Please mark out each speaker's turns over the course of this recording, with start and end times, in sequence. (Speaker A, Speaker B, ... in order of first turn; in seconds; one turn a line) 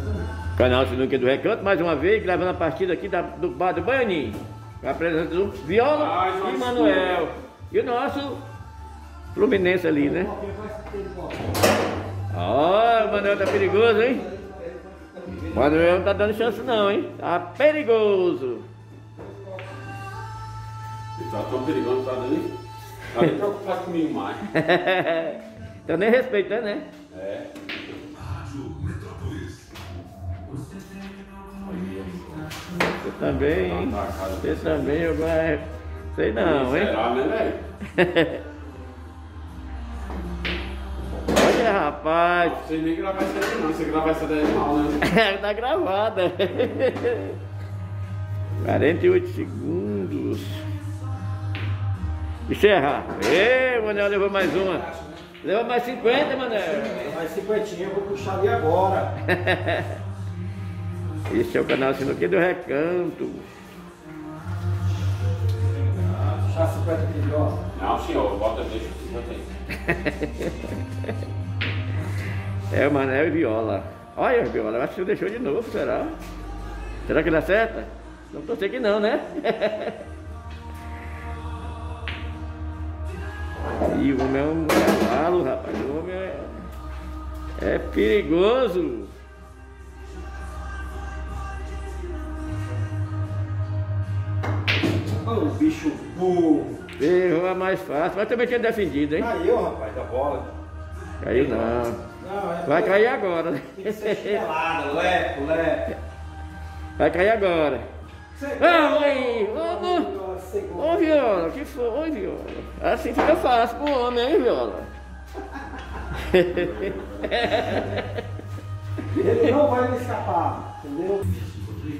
Speaker A: 0.6-8.4
Speaker B: 5.9-7.3
Speaker A: 9.3-10.3
Speaker C: 10.1-11.3
Speaker A: 12.3-14.3
Speaker A: 15.5-18.6
Speaker B: 21.1-22.5
Speaker B: 23.1-24.4
Speaker A: 24.5-26.9
Speaker B: 27.1-27.5
Speaker B: 31.5-32.5
Speaker A: 33.0-35.6
Speaker B: 33.5-35.0
Speaker A: 36.1-37.0
Speaker B: 36.4-37.6
Speaker A: 37.9-38.4
Speaker A: 41.3-42.6
Speaker B: 42.4-45.0
Speaker A: 45.0-47.4
Speaker A: 48.6-50.6
Speaker A: 52.5-54.9
Speaker A: 55.4-57.1
Speaker C: 57.0-59.1
Speaker A: 59.3-60.0
Speaker A: 61.3-63.5
Speaker C: 66.4-67.6
Speaker B: 67.7-69.5
Speaker A: 69.8-71.1
Speaker A: 72.7-76.1
Speaker A: 77.1-80.0
Speaker A: 83.8-86.6
Speaker A: 87.6-89.1
Speaker C: 95.2-96.8
Speaker A: 97.0-99.3
Speaker C: 99.2-100.5
Speaker A: 101.2-102.0
Speaker C: 102.2-103.1
Speaker A: 102.7-104.4
Speaker C: 103.8-105.8
Speaker A: 107.0-107.9
Speaker C: 108.3-111.0
Speaker A: 108.6-110.1
Speaker A: 110.8-114.9
Speaker A: 116.1-118.2
Speaker B: 116.5-117.8
Speaker C: 119.1-121.2